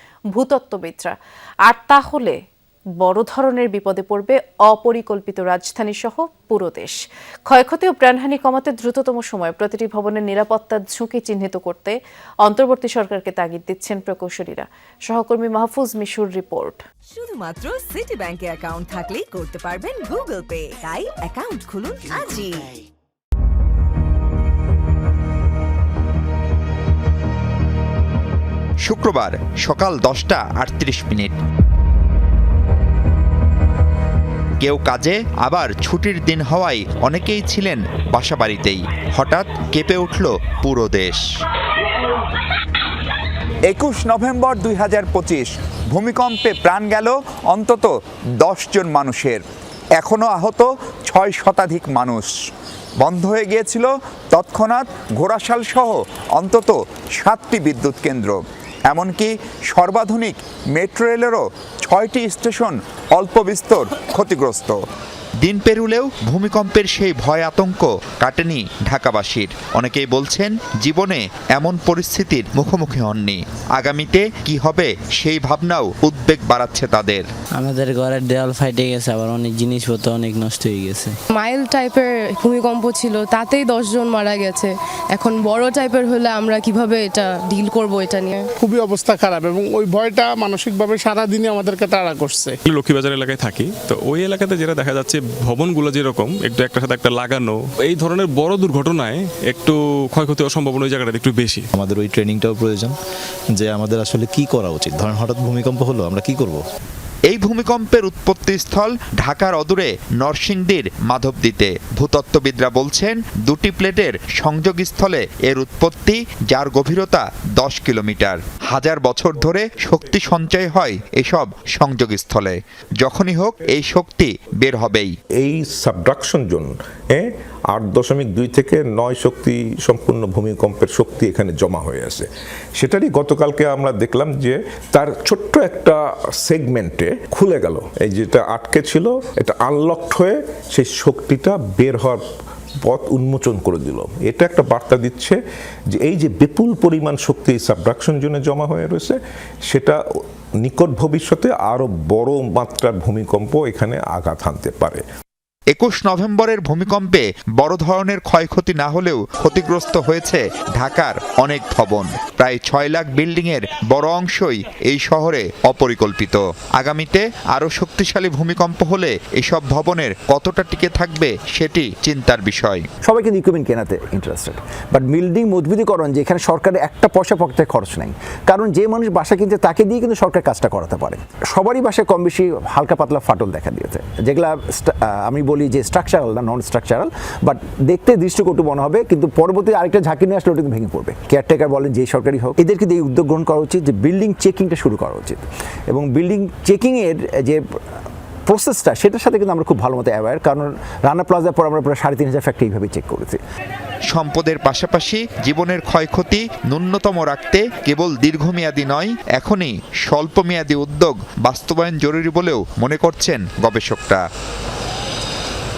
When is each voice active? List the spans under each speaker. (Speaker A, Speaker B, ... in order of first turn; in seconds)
Speaker A: 0.3-1.1, 1.7-2.4, 3.0-7.0, 7.5-16.8
Speaker B: 17.1-22.8
Speaker C: 28.9-31.4, 34.6-41.2, 65.4-77.3, 107.3-125.1, 155.7-172.8, 204.1-214.2
Speaker D: 43.7-47.9, 48.4-49.4, 50.0-52.3, 53.1-53.8, 54.4-55.7, 56.4-58.4, 58.9-64.8
Speaker E: 77.6-81.1
Speaker F: 81.3-88.5
Speaker G: 88.6-92.6
Speaker H: 92.7-101.7
Speaker I: 101.8-103.0, 103.5-106.6
Speaker J: 125.4-142.2, 142.9-145.4, 145.9-149.2, 149.7-150.0, 150.6-155.0
Speaker K: 173.1-197.6, 198.5-203.4